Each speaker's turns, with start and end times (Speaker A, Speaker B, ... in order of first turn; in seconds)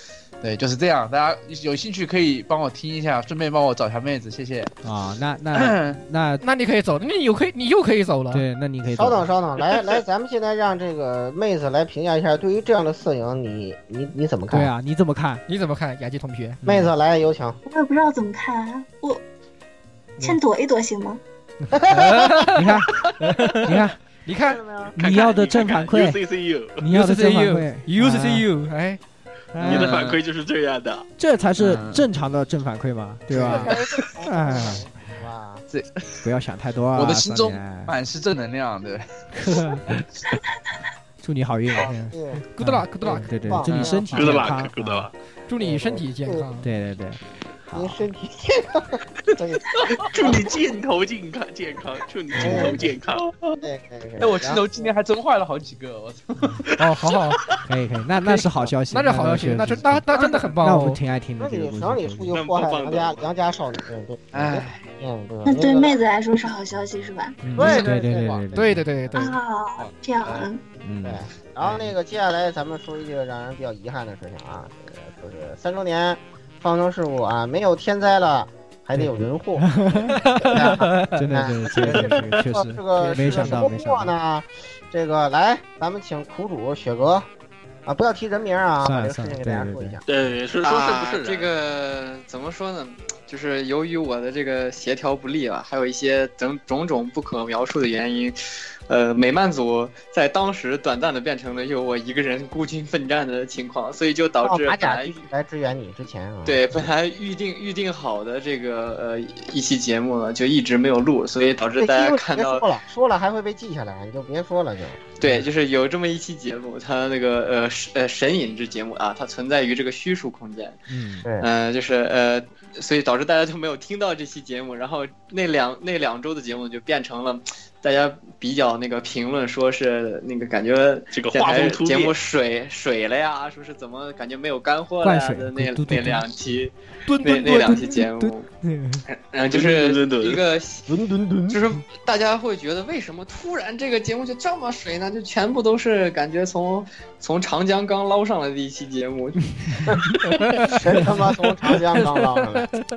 Speaker A: 0.4-4.8, 5.5-6.0, 29.6-30.2, 31.6-32.0, 35.7-36.2, 37.0-39.2, 43.7-44.0, 52.5-53.6, 54.2-56.6, 64.3-64.9, 69.8-70.4
Speaker B: 4.8-6.4, 8.3-9.3, 14.5-15.4, 16.6-16.9, 22.5-23.1, 23.6-24.0, 25.0-26.2, 26.8-28.5, 29.5-30.1, 31.2-34.9, 36.2-37.9, 39.4-40.1, 41.2-45.1, 46.6-48.0, 52.4-52.8, 57.7-62.4, 67.4-69.0, 70.8-71.8, 79.0-84.1, 88.8-90.0, 120.9-121.3, 135.0-136.4, 138.2-139.0
Speaker C: 6.4-8.4, 15.5-16.6, 21.9-24.6, 26.9-29.0, 42.5-43.3, 45.5-46.7, 56.8-57.4, 58.2-61.0, 67.6-67.9, 68.5-69.4, 80.2-81.3, 137.1-138.0, 150.2-150.5
Speaker D: 8.9-14.7, 16.6-17.6, 21.7-22.5, 24.4-25.0, 33.3-35.6, 41.8-42.4, 43.0-44.5, 45.6-46.5, 47.7-50.5, 52.4-52.9, 53.6-54.9, 61.4-66.0, 67.6-69.3, 71.0-79.7, 80.4-87.3, 87.9-90.0, 104.4-106.6, 111.8-115.1, 140.9-141.6, 150.7-152.7
Speaker E: 17.7-19.2, 20.2-21.2, 65.4-67.4, 69.1-70.6
Speaker F: 25.0-26.8, 29.6-31.1, 44.1-45.1, 49.3-53.2, 62.3-63.2, 90.1-91.4, 131.1-132.2, 139.5-140.4
Speaker G: 90.6-98.4, 98.9-105.2, 106.5-112.7, 115.2-120.8, 121.4-138.5, 139.1-140.9, 141.5-149.8